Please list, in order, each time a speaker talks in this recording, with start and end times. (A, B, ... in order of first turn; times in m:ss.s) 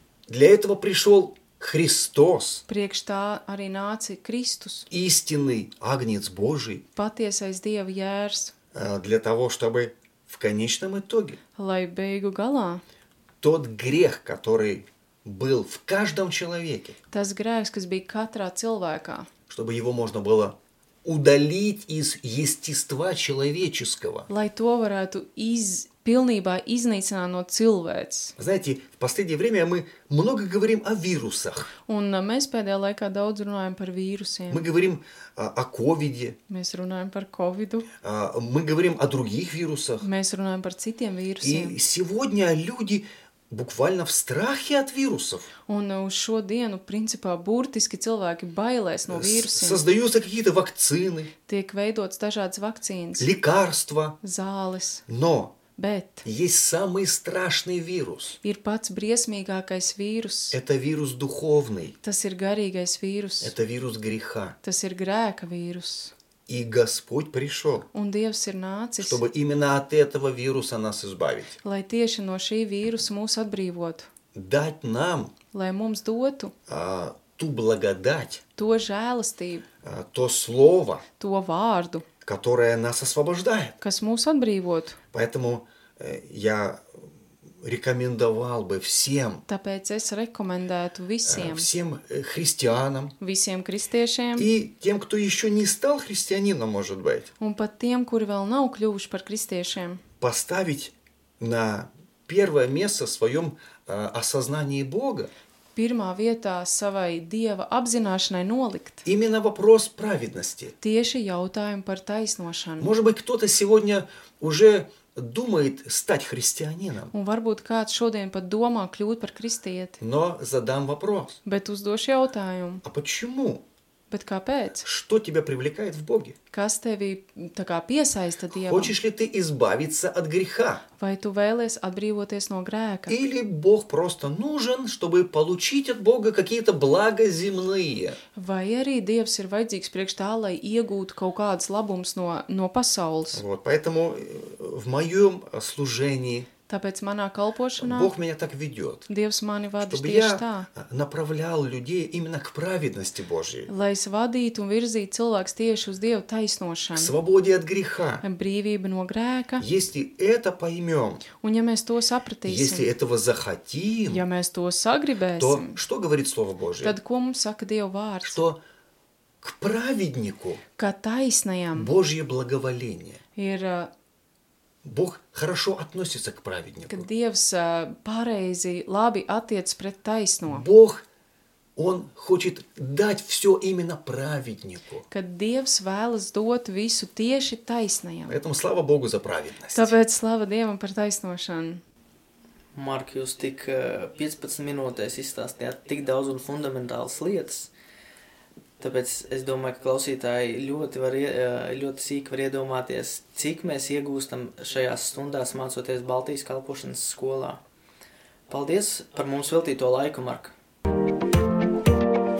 0:00.3-0:02.6 A
0:02.7-0:04.9 B
0:04.9-0:06.8 A
0:06.9-0:08.5 B
0:08.7-0:11.4 A
0:11.6-0:12.8 B
0:13.4-0:17.0 A
0:17.1-0:19.3 B
0:19.5-0:24.3 A
0:24.3-0:28.4 B
0:28.4-0:31.7 A
0:31.9-0:34.6 B
0:34.5-0:36.4 A
0:36.5-0:37.9 B
0:38.0-0:40.0 A
0:40.0-0:41.7 B
0:41.4-0:45.5 A
0:45.7-0:49.8 B
0:49.1-0:51.3 A
0:51.5-0:53.3 B
0:53.2-0:54.2 A
0:54.2-0:55.0 B
0:55.1-0:55.5 A
0:55.8-0:56.2 B
0:56.2-0:58.4 A
0:58.4-1:00.6 B
1:00.5-1:02.0 A
1:02.0-1:03.5 B
1:03.4-1:04.6 A
1:04.6-1:06.1 B
1:06.5-1:07.9 A
1:07.9-1:09.2 B
1:09.0-1:11.6 A
1:11.6-1:14.1 B
1:14.3-1:15.3 A
1:15.5-1:16.5 B
1:16.7-1:18.4 A
1:18.6-1:19.6 B
1:19.8-1:21.0 A
1:21.2-1:22.0 B
1:22.2-1:23.8 A
1:23.8-1:25.0 B
1:25.1-1:29.4 A
1:29.5-1:31.7 B
1:31.2-1:33.1 A
1:33.2-1:34.5 B
1:34.4-1:37.3 A
1:37.4-1:40.0 B
1:40.2-1:45.3 A
1:45.7-1:49.0 B
1:49.0-1:50.8 A
1:50.8-1:52.9 B
1:52.8-1:57.1 A
1:57.1-2:00.0 B
2:00.0-2:01.4 A
2:01.4-2:02.8 B
2:02.8-2:03.6 A
2:04.1-2:04.8 B
2:04.8-2:06.4 A
2:06.5-2:08.9 B
2:08.5-2:10.8 A
2:11.0-2:13.2 B
2:13.1-2:18.2 A
2:18.4-2:23.4 B
2:23.3-2:26.5 A
2:26.7-2:28.1 B
2:27.8-2:29.1 A
2:29.1-2:30.7 B
2:29.8-2:33.7 A
2:33.7-2:37.1 B
2:36.9-2:38.2 A
2:38.2-2:39.6 B
2:39.6-2:41.2 A
2:41.4-2:42.9 B
2:42.4-2:44.2 A
2:44.1-2:45.8 B
2:45.4-2:47.0 A
2:46.8-2:48.4 B
2:48.2-2:48.6 A
2:49.4-2:50.6 A
2:50.8-2:51.9 B
2:51.7-2:53.2 A
2:53.4-2:53.9 B
2:54.8-2:57.1 A
2:56.9-3:00.7 B
3:00.4-3:01.0 A
3:01.8-3:05.0 A
3:05.1-3:08.4 B
3:08.3-3:09.9 A
3:09.7-3:11.8 B
3:12.7-3:17.7 C
3:18.8-3:27.6 C
3:28.5-3:30.5 C